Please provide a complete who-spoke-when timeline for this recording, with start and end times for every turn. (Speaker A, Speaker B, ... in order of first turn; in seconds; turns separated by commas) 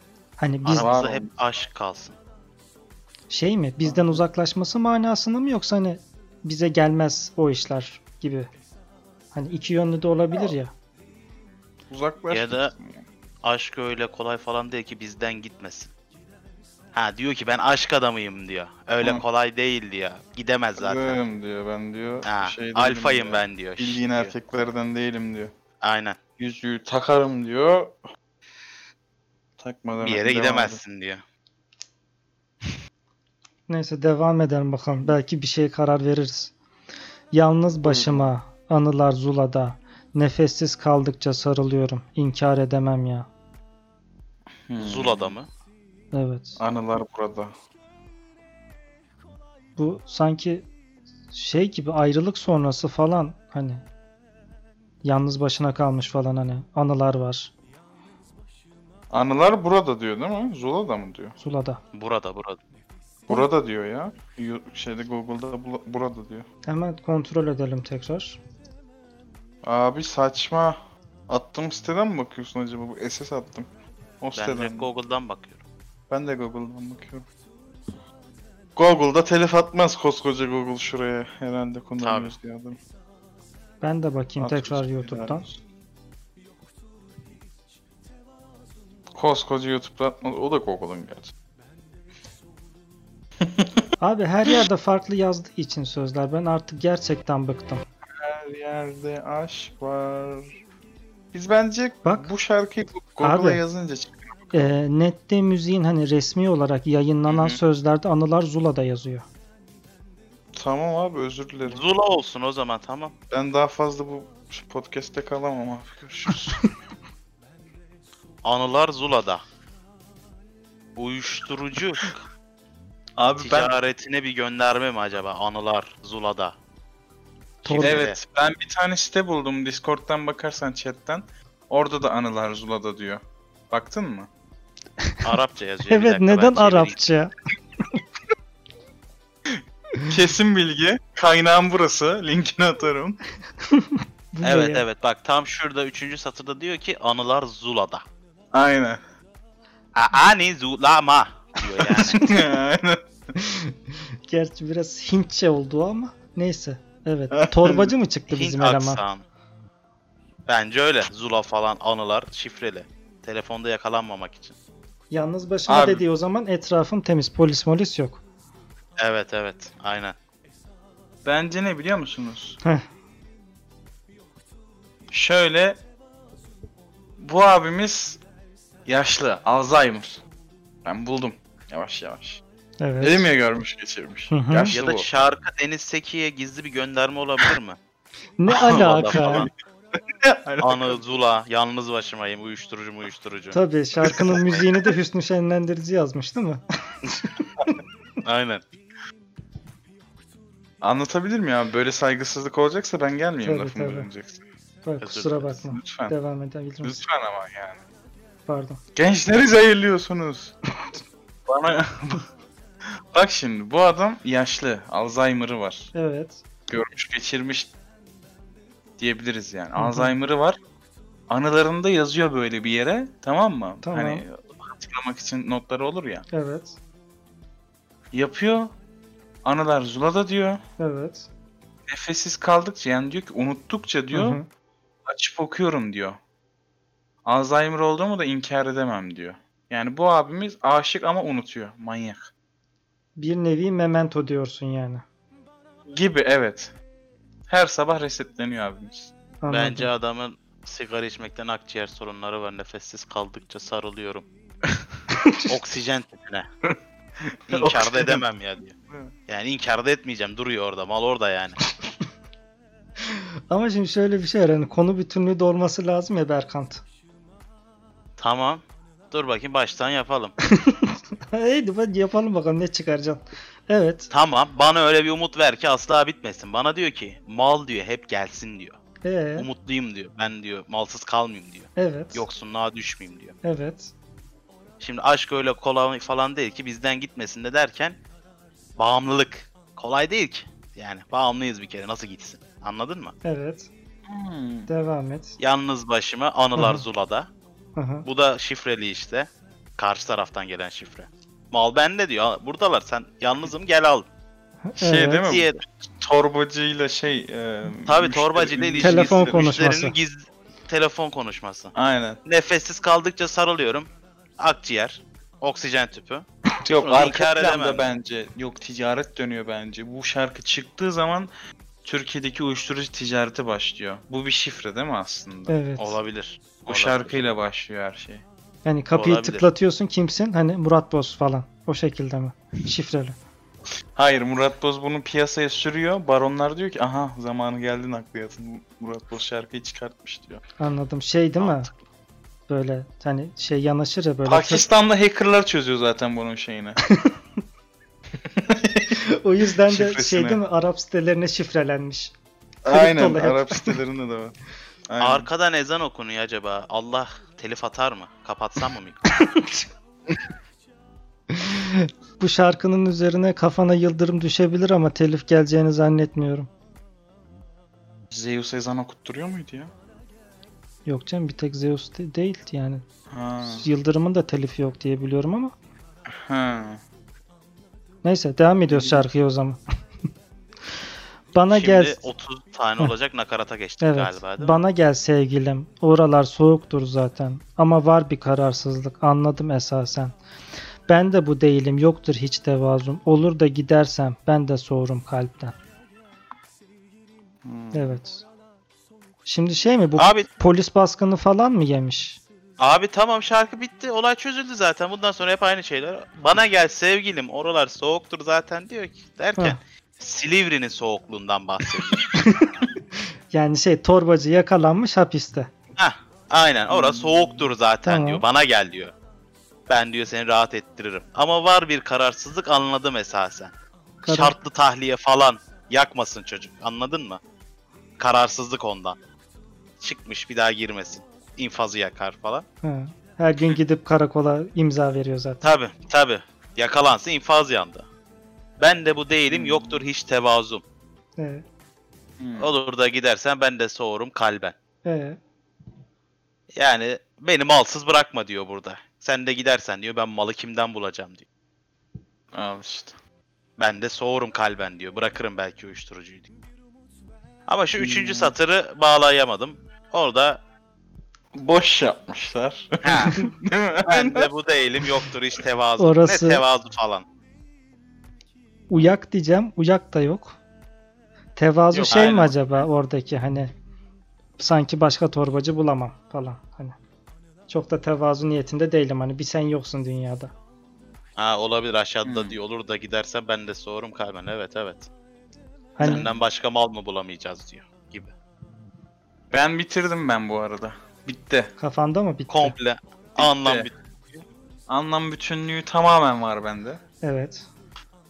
Speaker A: 0.4-0.9, Speaker B: 0.6-2.2, Speaker C: 0.8-1.3, Speaker A: 3.3-8.5, Speaker C: 3.8-4.2, Speaker A: 9.3-10.7, Speaker C: 11.9-13.1, Speaker B: 12.3-12.7, Speaker B: 13.4-15.9, Speaker B: 16.9-21.2, Speaker C: 20.8-25.5, Speaker B: 22.2-24.4, Speaker B: 25.8-26.2, Speaker C: 26.4-28.0, Speaker C: 29.6-30.8, Speaker B: 30.0-31.2, Speaker A: 33.7-36.5, Speaker A: 37.3-43.3, Speaker C: 37.8-38.3, Speaker C: 44.7-45.4, Speaker B: 44.8-45.5, Speaker A: 46.1-46.6, Speaker C: 46.6-47.5, Speaker A: 49.8-50.7, Speaker A: 51.3-53.8, Speaker A: 55.0-57.5, Speaker C: 59.1-61.4, Speaker A: 61.4-61.8, Speaker B: 61.9-62.8, Speaker C: 63.3-66.5, Speaker A: 66.7-68.4, Speaker C: 69.6-74.9, Speaker B: 74.4-75.6, Speaker C: 76.1-77.3, Speaker C: 78.8-82.8, Speaker B: 82.0-82.4, Speaker A: 83.8-85.5, Speaker C: 84.4-85.6, Speaker C: 89.1-91.3, Speaker C: 93.4-93.8, Speaker A: 94.0-97.8, Speaker C: 98.2-100.6, Speaker C: 101.3-104.7, Speaker A: 103.2-103.6, Speaker A: 104.5-109.3, Speaker B: 107.3-107.6, Speaker C: 110.5-111.8, Speaker B: 111.7-113.2, Speaker C: 113.3-116.6, Speaker B: 118.4-119.4, Speaker B: 121.0-122.2, Speaker C: 123.2-123.8, Speaker B: 123.4-126.6, Speaker B: 127.6-128.2, Speaker A: 127.7-128.0, Speaker C: 127.8-134.3, Speaker B: 135.2-137.0, Speaker A: 135.9-137.3, Speaker C: 139.5-143.2, Speaker A: 143.7-144.8, Speaker B: 144.4-148.1, Speaker C: 148.5-149.0, Speaker B: 149.9-152.3, Speaker C: 151.9-153.1, Speaker A: 153.4-153.7, Speaker A: 154.3-159.0, Speaker C: 157.3-157.9, Speaker B: 158.3-159.2, Speaker B: 160.5-164.6, Speaker A: 165.1-168.2, Speaker C: 165.7-166.0, Speaker B: 169.0-170.2, Speaker C: 171.2-172.6, Speaker C: 175.1-175.8, Speaker C: 177.2-178.2, Speaker C: 178.9-180.2, Speaker C: 180.8-182.4, Speaker A: 182.8-183.3, Speaker C: 183.0-185.1, Speaker A: 184.3-184.8, Speaker B: 184.7-187.8, Speaker A: 188.4-189.5, Speaker B: 188.5-189.5, Speaker C: 188.7-189.5, Speaker C: 190.2-191.0, Speaker B: 190.6-193.6, Speaker A: 193.5-196.6, Speaker C: 194.0-194.4, Speaker B: 194.1-194.6, Speaker B: 198.2-198.6, Speaker C: 200.8-204.4, Speaker A: 203.4-204.1, Speaker A: 204.8-207.0, Speaker B: 205.0-205.6, Speaker C: 205.7-206.2, Speaker C: 206.8-207.8, Speaker A: 208.5-208.8, Speaker C: 209.0-210.6, Speaker C: 211.5-212.2, Speaker C: 212.8-215.9, Speaker A: 215.9-216.4, Speaker C: 216.7-217.7, Speaker C: 219.0-220.6, Speaker A: 219.8-220.1, Speaker C: 221.3-226.3, Speaker A: 223.8-224.2, Speaker A: 226.3-226.8, Speaker C: 228.1-228.7, Speaker C: 229.4-230.6, Speaker A: 230.8-231.3, Speaker C: 231.9-234.4, Speaker A: 234.1-234.5, Speaker C: 235.1-236.2, Speaker C: 237.2-242.3, Speaker A: 243.2-245.0, Speaker C: 245.9-246.7, Speaker C: 247.5-249.1, Speaker A: 249.4-249.9, Speaker B: 249.5-254.3, Speaker B: 255.4-256.5, Speaker C: 256.7-258.2, Speaker B: 257.5-258.8, Speaker B: 259.3-261.6, Speaker A: 263.0-266.8, Speaker B: 268.2-270.4, Speaker A: 270.5-274.1, Speaker B: 274.1-278.8, Speaker A: 279.0-279.5, Speaker B: 279.4-283.4, Speaker A: 281.8-282.2, Speaker A: 283.4-283.9, Speaker B: 284.8-288.0, Speaker B: 288.8-293.1, Speaker A: 293.2-293.7, Speaker C: 294.1-294.7, Speaker A: 294.7-295.4, Speaker B: 295.4-297.3, Speaker A: 296.6-296.8, Speaker A: 297.8-298.1, Speaker B: 298.1-304.1, Speaker A: 304.6-305.2, Speaker C: 304.8-309.5, Speaker B: 305.2-305.6, Speaker B: 307.9-311.7, Speaker A: 308.8-309.9, Speaker C: 311.8-312.2, Speaker B: 312.2-317.9, Speaker C: 316.6-321.3, Speaker C: 321.8-325.6, Speaker A: 325.5-326.0, Speaker B: 325.8-327.2, Speaker C: 326.7-328.2, Speaker A: 328.6-333.2, Speaker B: 328.9-329.5, Speaker C: 333.9-340.4, Speaker A: 340.6-341.7, Speaker B: 341.4-341.7, Speaker A: 342.5-344.6, Speaker C: 344.2-346.8, Speaker A: 346.8-347.1, Speaker C: 348.2-349.0, Speaker A: 348.9-352.1, Speaker C: 349.6-350.4, Speaker C: 352.6-354.4, Speaker A: 352.7-353.8, Speaker C: 354.9-355.3, Speaker B: 355.0-359.0, Speaker A: 359.2-359.7, Speaker A: 361.3-366.5, Speaker C: 368.1-369.7, Speaker A: 370.9-372.8, Speaker C: 373.1-373.7, Speaker A: 373.4-375.5, Speaker C: 376.1-376.8, Speaker A: 378.0-379.6, Speaker C: 378.7-379.1, Speaker A: 381.3-382.0, Speaker B: 381.5-384.6, Speaker A: 383.8-390.2, Speaker A: 390.9-395.6, Speaker C: 397.4-398.0, Speaker A: 397.7-398.2, Speaker A: 399.3-402.2, Speaker B: 400.0-400.3, Speaker B: 402.6-412.1, Speaker A: 412.2-412.4, Speaker A: 413.3-415.5, Speaker B: 415.8-418.9, Speaker C: 416.7-417.5, Speaker A: 417.9-418.2, Speaker B: 419.7-423.5, Speaker A: 424.0-424.4, Speaker B: 424.1-427.2, Speaker B: 428.0-429.0, Speaker B: 429.8-432.5, Speaker A: 432.6-435.4, Speaker B: 435.4-437.9, Speaker B: 438.6-440.6, Speaker C: 439.3-439.9, Speaker A: 441.2-441.4, Speaker C: 442.2-442.5, Speaker B: 442.4-444.6, Speaker A: 444.9-445.2, Speaker B: 446.5-451.2, Speaker C: 452.3-452.9, Speaker B: 453.6-456.3, Speaker B: 457.5-460.4, Speaker C: 457.8-458.4, Speaker C: 461.4-464.3, Speaker B: 462.8-463.2, Speaker B: 463.9-467.1, Speaker A: 465.8-466.4, Speaker A: 468.7-470.4, Speaker A: 471.4-473.5, Speaker B: 471.7-472.6, Speaker A: 474.4-476.8, Speaker A: 477.5-480.3, Speaker B: 481.2-484.9, Speaker C: 482.0-482.4, Speaker A: 485.8-486.1, Speaker C: 485.8-486.1, Speaker B: 485.8-488.1, Speaker C: 489.3-491.5, Speaker A: 491.6-492.6, Speaker B: 492.3-494.2, Speaker C: 493.2-493.7, Speaker C: 494.7-496.8, Speaker A: 497.0-497.5